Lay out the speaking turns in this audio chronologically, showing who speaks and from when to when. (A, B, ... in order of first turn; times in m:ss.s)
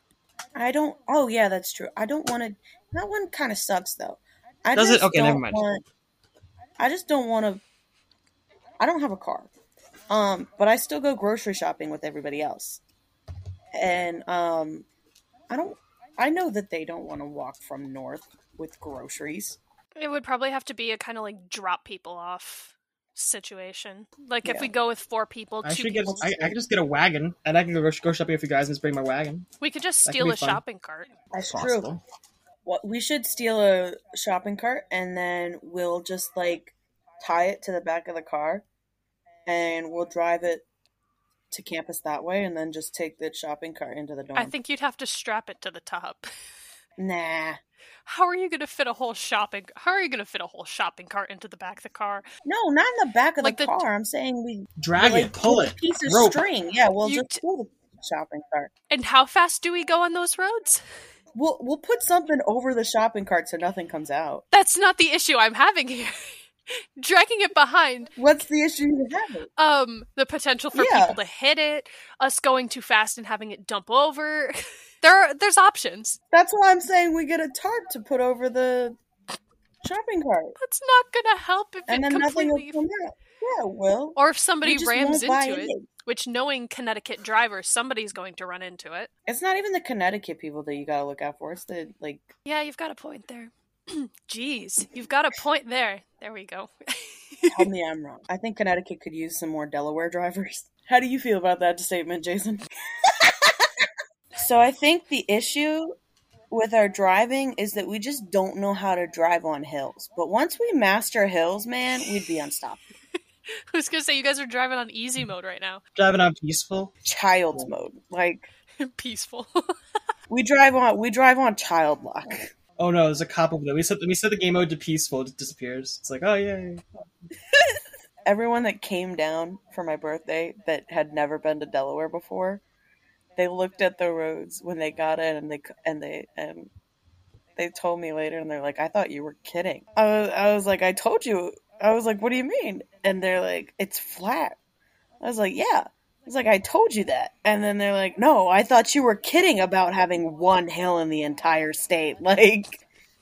0:00.6-0:05.8 A
0:04.8-0:05.6 B
0:06.8-0:07.6 A
0:08.8-0:09.5 A
0:10.1-0:12.8 A
0:13.7-0:14.9 A
0:15.5-0:19.6 A
0:20.0-0:26.3 C
0:24.4-0:24.7 A
0:25.6-0:29.5 B
0:26.1-0:26.6 A
0:29.6-0:31.1 C
0:30.0-0:30.6 B
0:31.3-0:31.9 A
0:31.4-0:32.0 B
0:32.6-0:38.6 A
0:39.5-0:40.6 A
0:41.5-0:44.6 A
0:44.4-0:46.3 C
0:47.0-0:47.6 A
0:48.1-0:52.3 C
0:52.4-0:58.7 A
0:53.4-0:53.8 C
0:54.8-0:56.4 B
0:57.0-0:57.4 C
0:58.9-1:00.8 C
1:01.4-1:04.4 A
1:04.5-1:06.1 C
1:07.0-1:08.1 C
1:08.2-1:09.5 A
1:09.6-1:16.2 C
1:10.7-1:11.2 A
1:16.3-1:19.0 A
1:19.8-1:20.6 A
1:20.6-1:22.8 C
1:21.9-1:25.9 A
1:24.2-1:29.1 C
1:29.3-1:32.3 A
1:32.4-1:37.7 C
1:37.5-1:43.7 A
1:44.3-1:46.0 A
1:46.5-1:52.8 A
1:53.7-1:55.8 C
1:56.0-1:56.9 B
1:57.0-1:58.5 A
1:58.8-1:59.5 C
2:00.3-2:02.5 A
2:02.8-2:06.8 B
2:08.3-2:12.6 A
2:13.4-2:16.7 A
2:17.6-2:24.6 A
2:25.2-2:32.8 A